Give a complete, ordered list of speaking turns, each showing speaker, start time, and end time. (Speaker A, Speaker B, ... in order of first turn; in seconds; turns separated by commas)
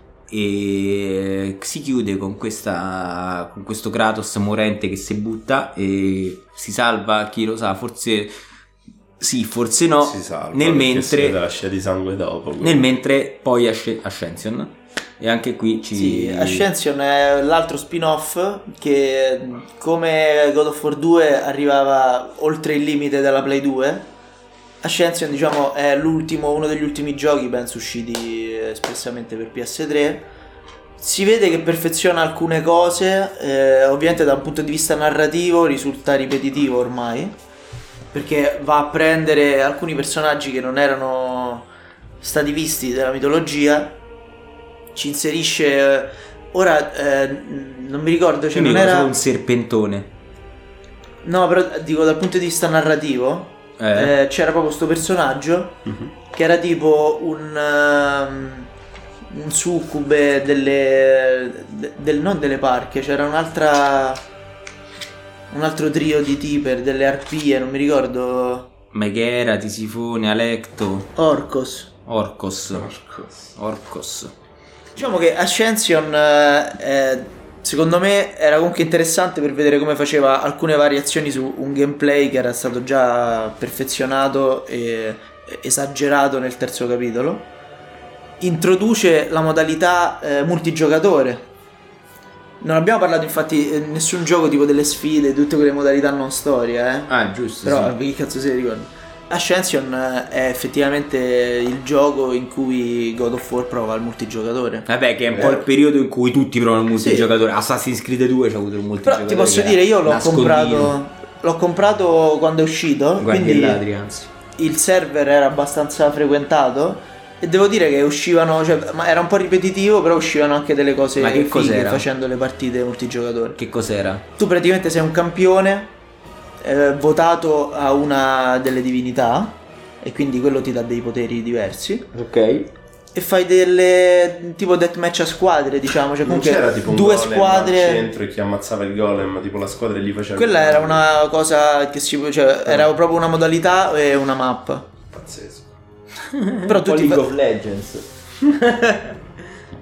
Speaker A: 0.3-8.3, Speaker A: 9.2-11.4, Speaker B: 10.0-12.8, Speaker A: 12.6-16.7, Speaker C: 15.9-24.1, Speaker C: 24.8-30.3, Speaker C: 31.0-37.4, Speaker C: 38.1-41.7, Speaker C: 42.2-44.0, Speaker C: 44.9-49.1, Speaker A: 48.5-50.1, Speaker C: 51.2-58.7, Speaker A: 53.8-54.1, Speaker B: 55.9-56.1, Speaker C: 59.3-64.2, Speaker C: 65.5-68.7, Speaker A: 68.9-71.1, Speaker C: 71.2-71.9, Speaker A: 72.1-74.3, Speaker B: 72.7-73.5, Speaker C: 75.0-87.5, Speaker C: 88.4-91.5, Speaker C: 92.6-97.1, Speaker A: 97.1-97.9, Speaker C: 97.6-105.7, Speaker A: 104.9-111.0, Speaker C: 107.0-107.3, Speaker C: 109.0-113.8, Speaker A: 113.2-114.3, Speaker C: 114.6-123.6, Speaker A: 121.2-122.0, Speaker A: 123.6-124.3, Speaker C: 124.4-125.9, Speaker C: 126.6-132.1, Speaker A: 132.1-132.7, Speaker C: 133.1-138.1, Speaker B: 136.2-141.0, Speaker C: 140.4-144.9, Speaker B: 145.1-145.7, Speaker A: 146.3-149.2, Speaker C: 146.7-147.3